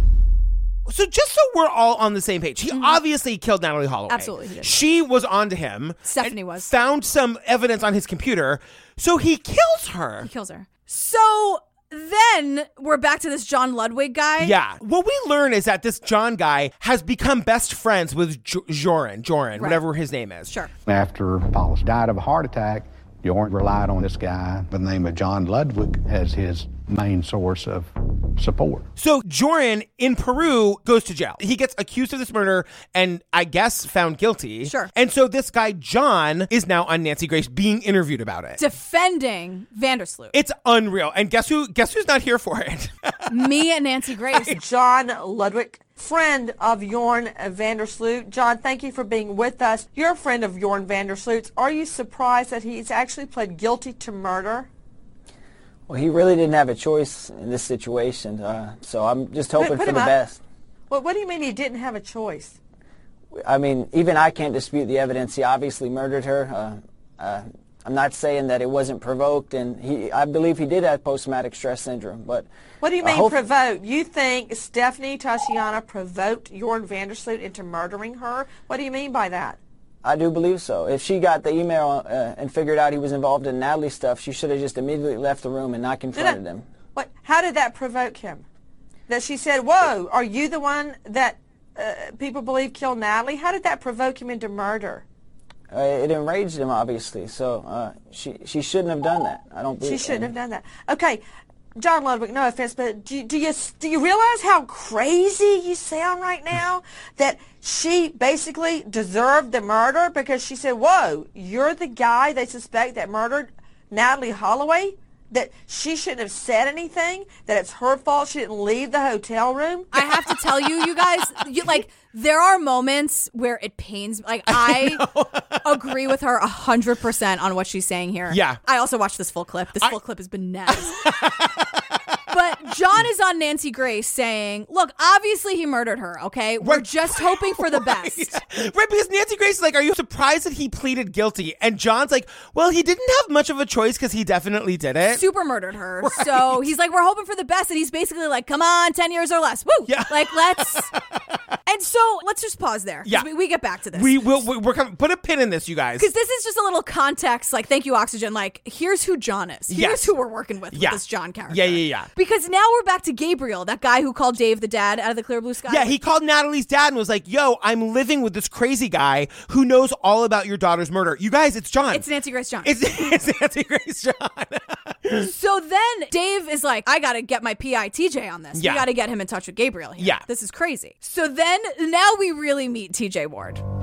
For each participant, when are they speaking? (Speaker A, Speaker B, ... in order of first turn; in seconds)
Speaker A: 0.9-10.3, 14.4-20.5, 29.0-38.6, 40.3-43.3, 124.5-125.9, 128.3-128.6, 130.7-131.8, 136.6-145.2, 146.0-146.7, 149.9-151.2, 153.9-156.1, 159.7-160.1, 160.7-162.1, 165.7-172.1, 172.6-175.3, 178.5-178.8, 180.0-180.2
Speaker B: 2.7-3.0, 4.1-4.8, 6.0-6.7, 10.2-14.5, 19.6-19.8, 34.6-34.9, 38.6-40.3, 43.3-44.6, 119.9-125.0, 125.6-131.0, 132.3-138.4, 145.1-150.9, 151.7-154.4, 156.0-165.9, 171.9-172.7, 175.2-183.6
Speaker C: 20.9-28.9
Speaker D: 44.5-54.7, 59.6-60.1, 60.9-62.5, 72.8-79.6, 86.9-88.4, 89.1-95.0, 99.8-101.2, 101.8-119.9
Speaker E: 55.9-60.4, 63.4-72.5, 73.0-73.4, 80.0-86.7, 95.7-100.3